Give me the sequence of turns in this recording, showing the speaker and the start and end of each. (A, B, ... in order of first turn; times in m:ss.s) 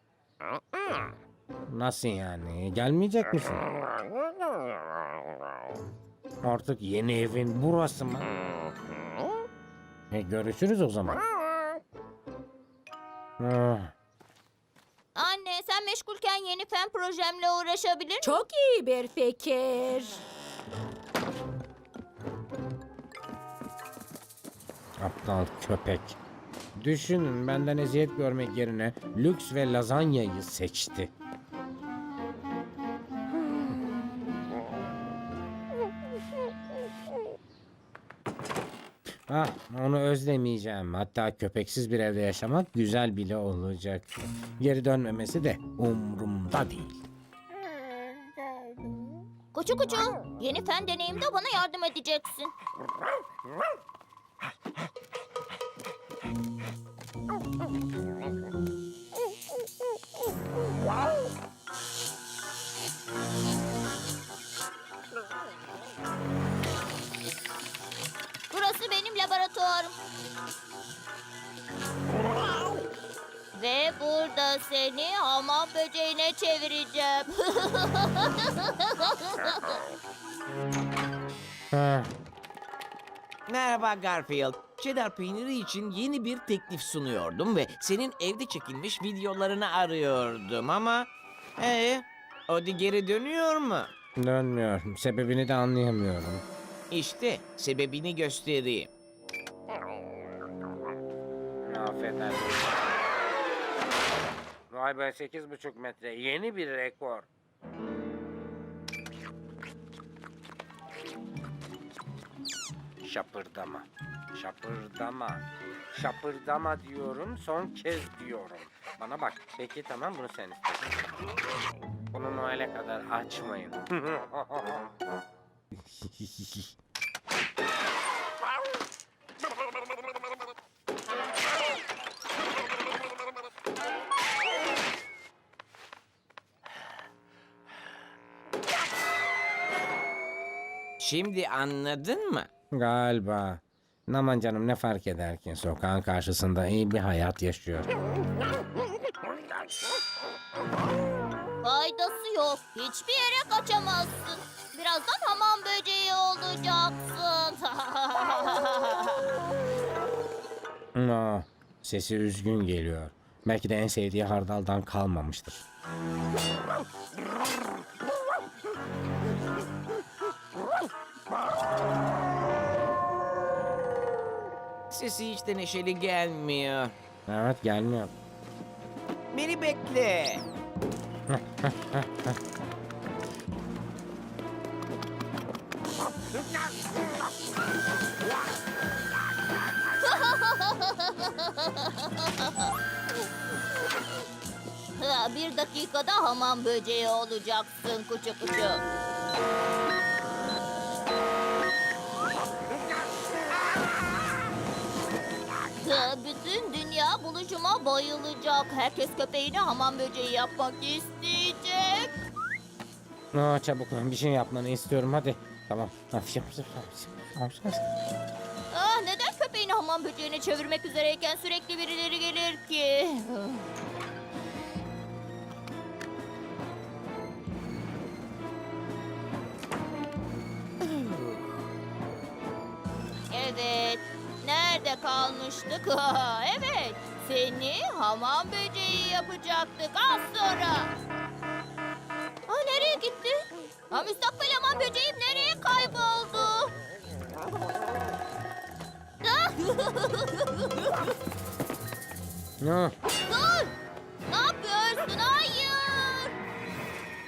0:01.7-0:03.6 A
0:06.4-0:08.3 A
0:10.1-0:11.2 A
0:13.4-0:13.9 A
0:15.2-0:18.4 B
0:18.2-0:20.2 C
0:25.0-0:26.2 A
0:26.8-0:31.1 A
0:39.3-0:47.0 A
0:49.5-0:52.5 B
1:08.5-1:10.0 B
1:13.5-1:19.8 B
1:21.7-1:22.1 A
1:23.5-1:33.9 D
1:34.2-1:36.4 A
1:36.9-1:38.9 D
1:41.7-1:42.7 A
1:44.7-1:47.3 A
1:53.0-2:01.3 A
2:02.1-2:04.8 A
2:05.9-2:06.7 A
2:21.0-2:22.5 D
2:22.8-2:27.9 A
2:31.6-2:39.3 B
2:41.0-2:45.7 A
2:54.9-2:57.0 D
2:57.3-2:58.1 A
2:59.3-3:00.4 D
3:01.3-3:02.4 A
3:10.0-3:12.7 B
3:15.0-3:18.8 B
3:25.8-3:32.1 B
3:33.3-3:37.8 A
3:38.7-3:43.7 B
3:50.8-3:51.6 D
3:53.3-4:00.9 B
4:02.5-4:06.7 B
4:09.2-4:11.1 B
4:12.6-4:13.0 A
4:13.3-4:13.7 B
4:14.3-4:16.4 B